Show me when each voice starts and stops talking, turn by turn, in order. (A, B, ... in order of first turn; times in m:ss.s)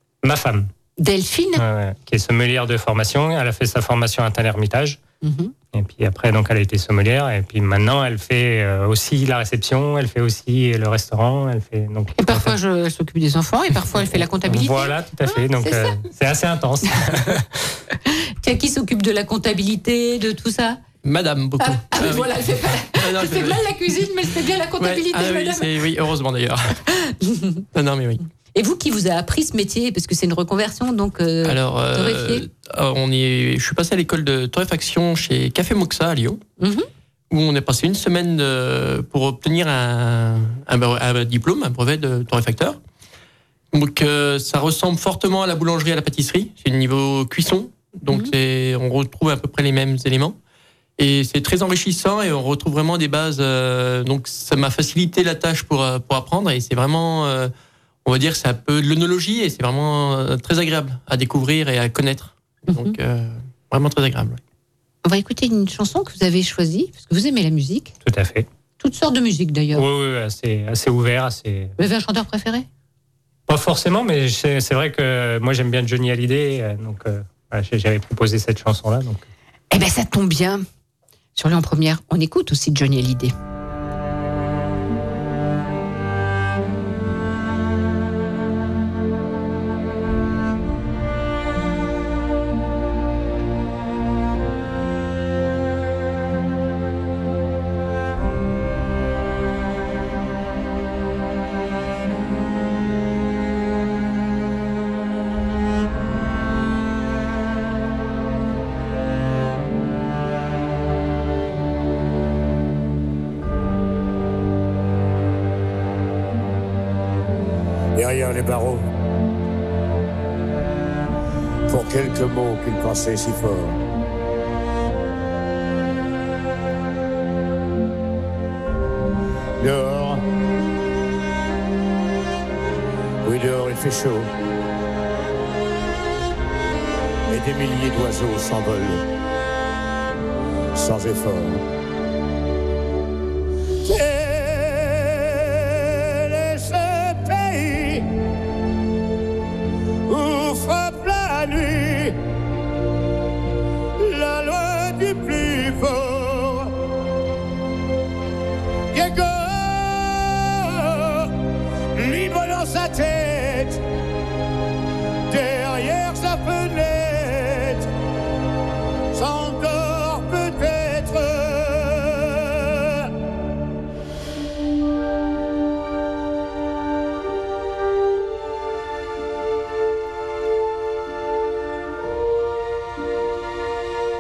0:00.2-0:00.7 A
0:01.0-0:01.6 B
0:01.6-0:05.0 A
0:05.2-0:05.5 B
0:05.7-0:12.6 A
0:12.2-0:16.0 B
0:13.9-0:17.7 A
0:18.0-0:20.8 B
0:21.0-0:24.0 C
0:21.6-0:25.7 B
0:24.8-0:26.8 C
0:27.1-0:27.6 B
0:27.7-0:28.2 C
0:28.6-0:32.5 B
0:31.4-0:36.4 C
0:36.6-0:36.9 B
0:37.3-0:42.8 C
0:43.7-0:50.4 C
0:51.0-0:57.5 C
0:58.0-1:04.4 C
1:02.7-1:03.0 B
1:05.0-1:07.9 B
1:08.0-1:08.5 A
1:08.8-1:09.8 B
1:09.7-1:11.8 A
1:11.8-1:12.7 B
1:13.5-1:19.3 A
1:19.7-1:20.6 B
1:21.4-1:23.3 B
1:58.0-1:58.9 D
2:01.7-2:03.8 D
2:09.6-2:10.2 D
2:13.2-2:14.3 D
2:17.3-2:19.0 D
2:20.8-2:21.6 D
2:23.8-2:28.1 D
2:30.1-2:32.2 D
2:34.0-2:36.8 D
2:38.9-2:41.3 D
2:42.0-2:43.8 D
2:45.3-2:47.9 D
2:49.1-2:53.1 D